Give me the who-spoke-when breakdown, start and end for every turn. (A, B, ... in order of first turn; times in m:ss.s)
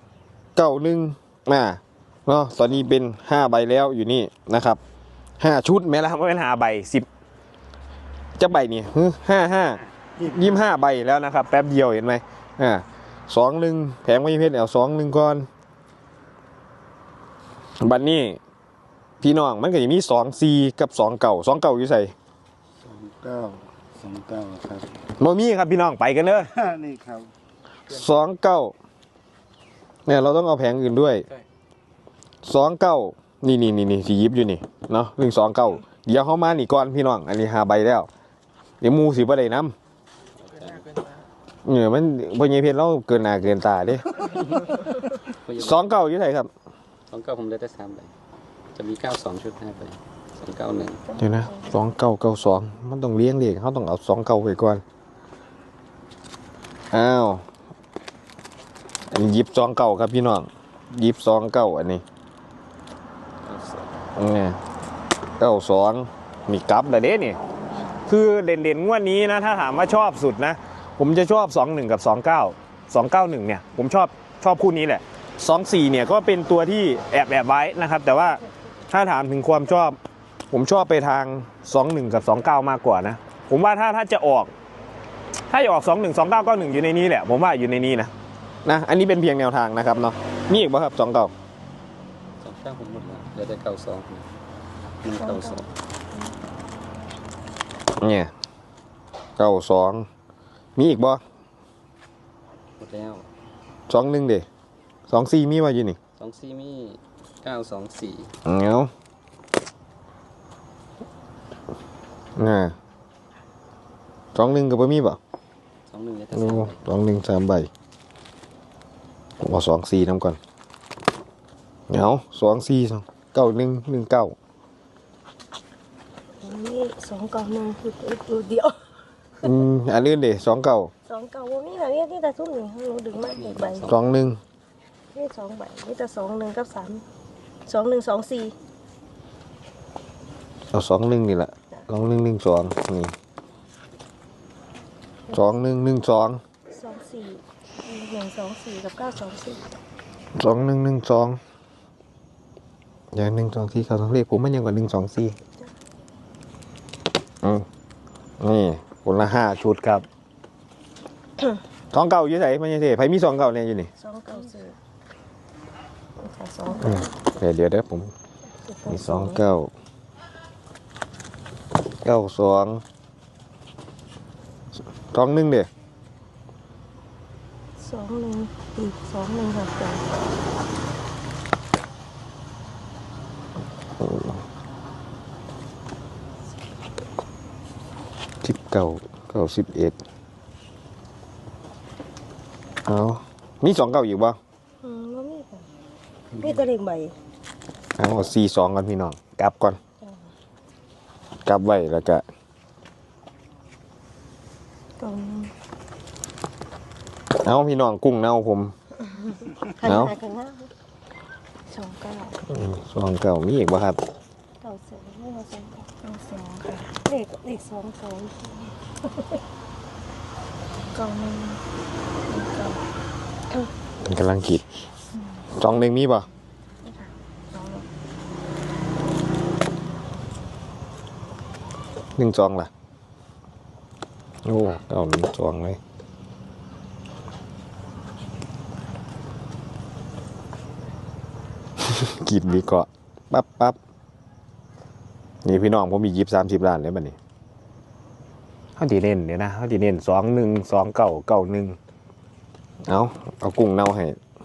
0:00.6-0:04.8 A
0:05.4-0:07.0 A
0:08.4-0:15.5 A
0:17.8-0:18.4 A
0:19.2-0:22.1 A
0:22.8-0:24.9 B
0:25.2-0:26.5 A
0:26.5-0:27.3 B
0:27.9-0:28.7 A
0:30.0-0:31.2 A
0:32.4-0:38.1 A
0:38.8-0:39.7 A
0:40.4-0:41.0 C
0:41.6-0:44.1 A
0:45.4-0:45.8 C
0:45.6-0:46.5 A
0:47.1-0:48.1 C
0:48.7-0:51.0 C
0:51.2-0:54.8 A
0:56.9-0:57.4 A
0:59.1-1:02.0 A
1:03.4-1:03.9 C
1:04.2-1:04.6 A
1:05.4-1:07.4 A
1:08.1-1:20.0 A
1:20.5-1:24.5 A
1:25.5-1:28.1 A
1:28.6-1:31.3 A
1:32.4-1:34.3 C
1:35.0-1:35.7 C
1:35.1-1:35.6 D
1:38.0-1:38.3 A
1:39.4-1:40.0 A
1:40.8-1:41.2 A
1:42.8-1:43.2 C
1:43.9-1:44.4 A
1:45.1-1:46.0 A
1:46.2-1:48.3 C
1:48.4-1:48.9 A
1:52.4-1:52.7 A
1:54.3-1:55.2 A
1:55.9-1:56.8 C
1:56.3-1:57.7 A
1:59.4-2:00.4 A
2:01.9-2:04.3 A
2:06.4-2:08.7 D
2:09.4-2:10.9 A
2:11.1-2:13.9 D
2:13.3-2:13.8 C
2:13.8-2:14.4 A
2:15.1-2:17.0 D
2:17.7-2:18.5 D
2:20.7-2:23.1 A
2:25.3-2:26.4 A
2:26.7-2:29.6 D
2:30.4-2:31.4 A
2:33.1-2:35.4 A
2:38.4-2:40.0 A
2:41.9-2:43.9 A
2:44.0-2:44.8 D
2:46.2-2:47.0 D
2:46.8-2:48.1 A
2:48.6-2:49.4 D
2:48.9-2:49.7 A
2:52.0-2:52.8 A
2:55.1-2:55.7 A
2:57.8-3:00.1 D
3:08.4-3:10.0 A
3:12.8-3:14.4 A
3:14.8-3:15.7 D
3:16.3-3:17.1 D
3:18.0-3:19.8 A
3:21.4-3:22.2 A
3:25.0-3:25.5 D
3:27.3-3:28.7 A
3:29.1-3:30.7 D
3:29.8-3:30.1 A
3:31.7-3:32.4 D
3:32.5-3:34.0 A
3:34.6-3:39.4 D
3:40.9-3:41.6 D
3:42.3-3:42.8 D
3:44.0-3:44.6 A
3:45.5-3:46.3 A
3:46.8-3:47.9 D
3:52.2-3:52.7 A
3:54.4-3:55.8 A
4:01.8-4:03.8 A
4:05.4-4:07.2 A
4:08.8-4:11.8 A
4:12.9-4:14.2 A